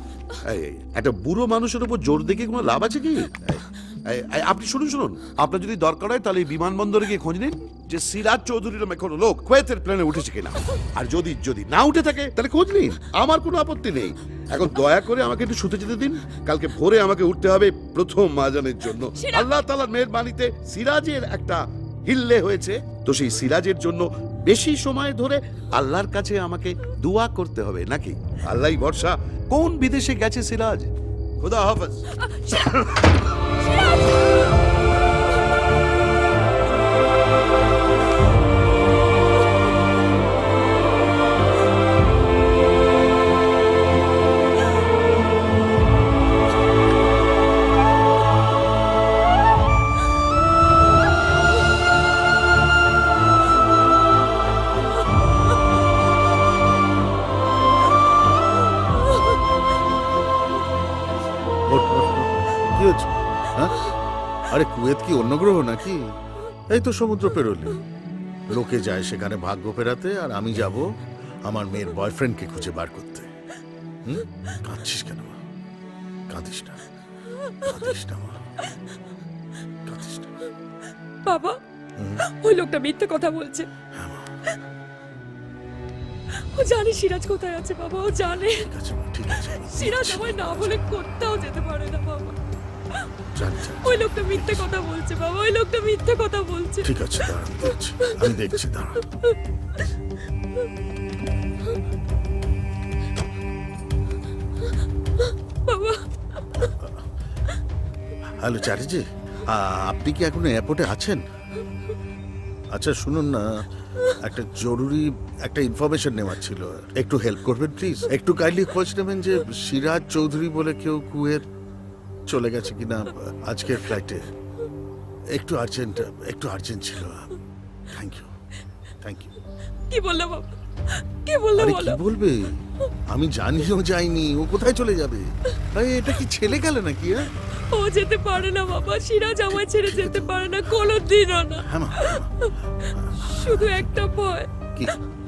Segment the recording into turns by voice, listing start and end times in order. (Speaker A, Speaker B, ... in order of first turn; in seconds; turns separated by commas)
Speaker A: 0.5-32.1, Speaker B: 19.2-19.5, Speaker B: 32.2-32.9, Speaker B: 33.7-34.3, Speaker C: 61.7-63.8, Speaker C: 64.5-66.0, Speaker C: 66.7-67.8, Speaker C: 68.5-70.9, Speaker C: 71.5-73.3, Speaker C: 74.1-75.4, Speaker C: 76.3-76.8, Speaker C: 77.6-78.4, Speaker C: 79.9-80.3, Speaker B: 81.2-81.6, Speaker C: 82.0-82.2, Speaker B: 82.3-83.7, Speaker C: 84.0-84.3, Speaker B: 86.5-88.7, Speaker C: 88.5-90.7, Speaker B: 89.3-92.4, Speaker C: 93.3-94.6, Speaker B: 93.8-96.9, Speaker C: 96.8-99.0, Speaker B: 97.6-98.3, Speaker B: 105.7-106.7, Speaker C: 106.6-106.9, Speaker C: 108.4-111.2, Speaker C: 112.7-121.5, Speaker C: 122.3-124.3, Speaker C: 125.3-127.3, Speaker C: 127.9-128.3, Speaker C: 129.0-129.3, Speaker B: 129.9-130.5, Speaker B: 131.2-132.0, Speaker C: 131.6-137.3, Speaker B: 137.7-144.5, Speaker C: 139.5-140.4, Speaker C: 141.6-142.3, Speaker C: 143.1-143.7